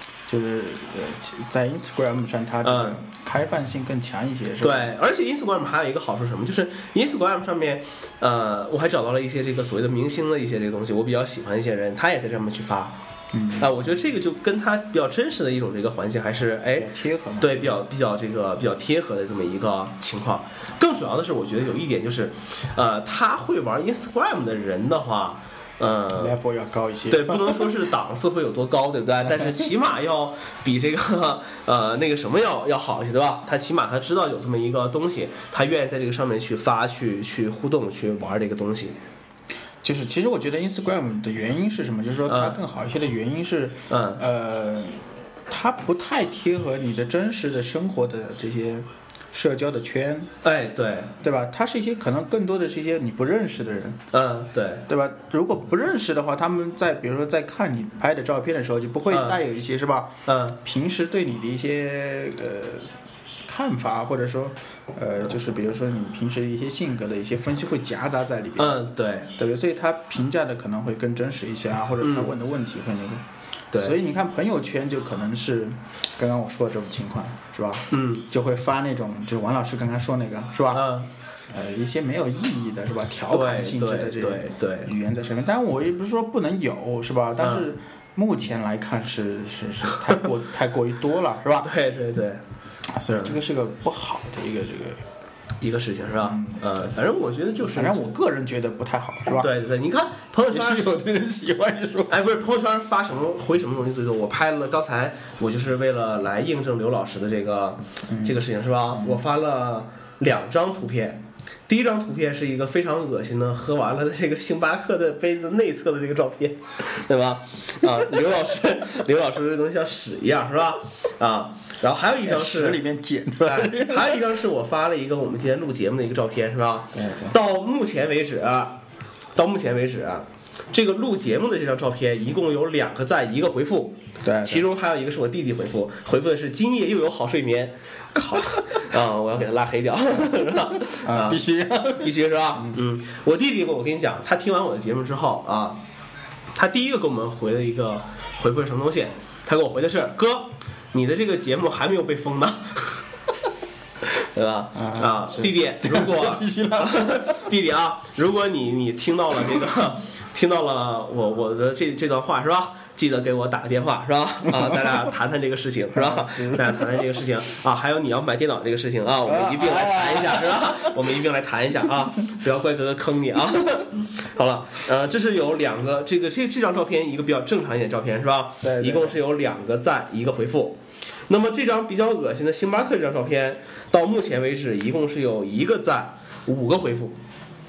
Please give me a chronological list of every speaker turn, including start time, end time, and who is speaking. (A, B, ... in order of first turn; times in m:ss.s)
0:00.3-0:04.9 A
0:02.6-0:03.0 B
0:04.6-0:13.0 B
0:13.3-0:13.8 A
0:13.6-0:26.4 B
0:16.7-0:17.8 A
0:26.1-0:27.7 A
0:27.1-0:39.0 B
0:29.3-0:29.7 A
0:39.8-0:50.3 A
0:42.3-0:42.6 B
0:43.9-0:44.2 B
0:50.4-0:51.1 B
0:51.2-0:54.0 A
0:54.1-0:54.9 B
0:54.9-1:02.9 A
0:59.1-0:59.4 B
1:00.2-1:00.6 B
1:03.4-1:08.8 A
1:08.6-1:09.3 B
1:09.3-1:13.2 A
1:12.0-1:12.3 B
1:13.7-1:14.0 B
1:13.7-1:20.9 A
1:17.9-1:18.3 B
1:20.7-1:21.1 B
1:21.5-1:31.7 A
1:23.3-1:24.9 B
1:27.4-1:27.7 B
1:29.9-1:30.2 B
1:31.6-1:32.4 B
1:32.9-1:35.0 A
1:35.6-1:38.1 B
1:36.2-1:37.1 A
1:37.6-1:39.5 A
1:39.4-1:40.9 B
1:40.5-1:42.3 A
1:42.1-2:02.8 B
1:48.1-1:49.2 A
2:02.2-2:04.3 A
2:03.4-2:08.8 B
2:06.9-2:07.4 A
2:09.3-2:21.4 B
2:14.2-2:14.7 A
2:20.9-2:22.8 A
2:22.0-2:25.8 B
2:26.5-2:33.0 B
2:34.2-3:07.2 B
2:34.7-2:37.5 A
2:44.6-2:45.0 A
2:45.9-2:47.2 A
2:49.2-2:51.0 A
2:58.6-2:59.2 A